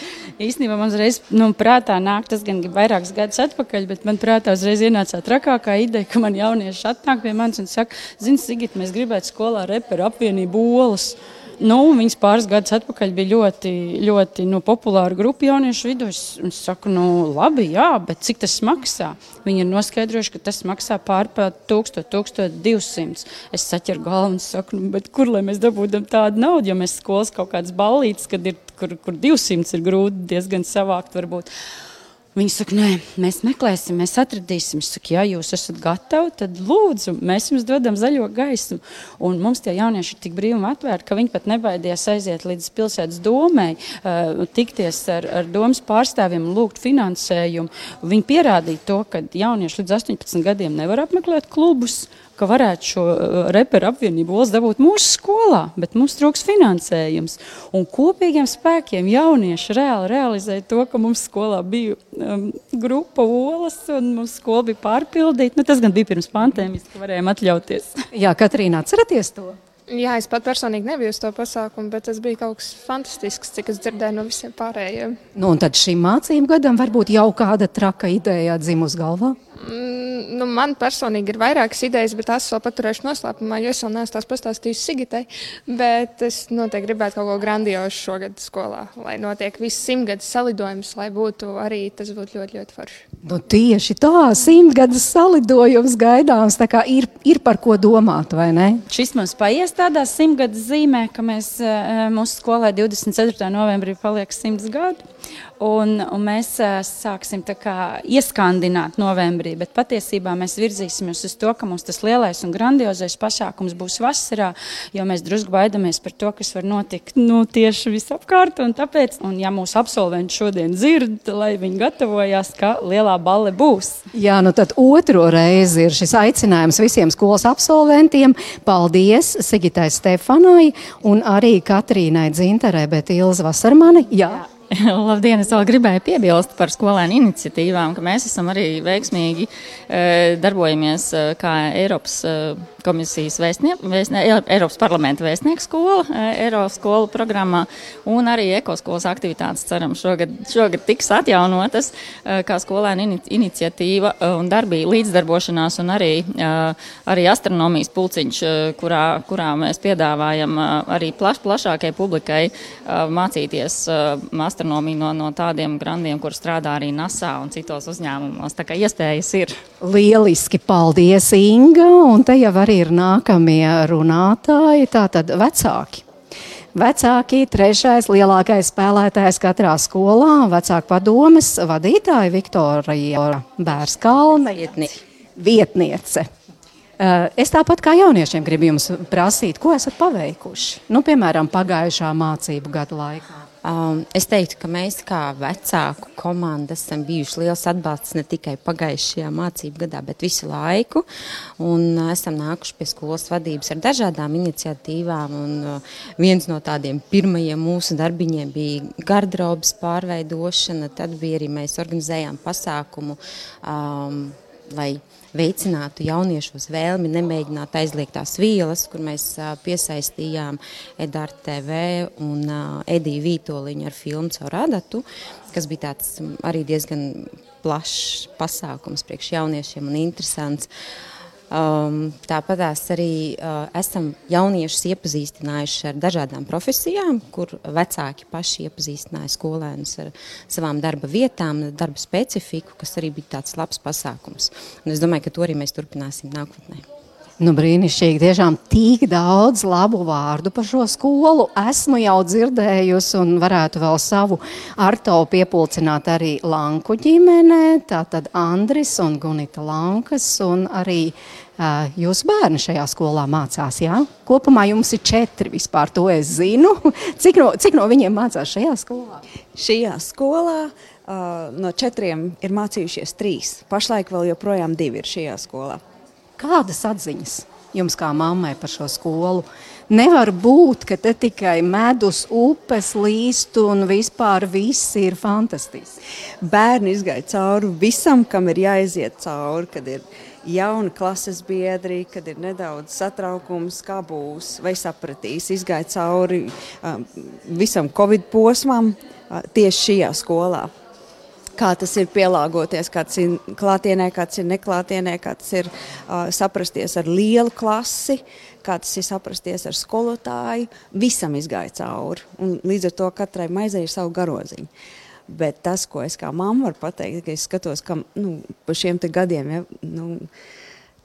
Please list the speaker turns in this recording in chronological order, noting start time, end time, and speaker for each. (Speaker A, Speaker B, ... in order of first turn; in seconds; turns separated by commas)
Speaker A: 0.4-31.5, Speaker A: 32.3-68.0, Speaker B: 68.1-69.6, Speaker C: 69.9-75.2, Speaker B: 75.3-79.4, Speaker C: 79.6-93.0, Speaker B: 93.2-98.8, Speaker A: 98.9-105.0, Speaker A: 105.6-124.0, Speaker B: 124.1-134.4, Speaker D: 134.7-169.6, Speaker B: 169.8-176.0, Speaker B: 176.7-186.3, Speaker B: 187.0-193.4, Speaker E: 193.6-201.1, Speaker E: 201.6-230.7, Speaker E: 231.5-246.9, Speaker B: 247.4-269.2, Speaker F: 269.5-275.8, Speaker B: 276.4-286.0, Speaker F: 286.4-300.7, Speaker F: 301.6-314.7, Speaker F: 315.3-320.3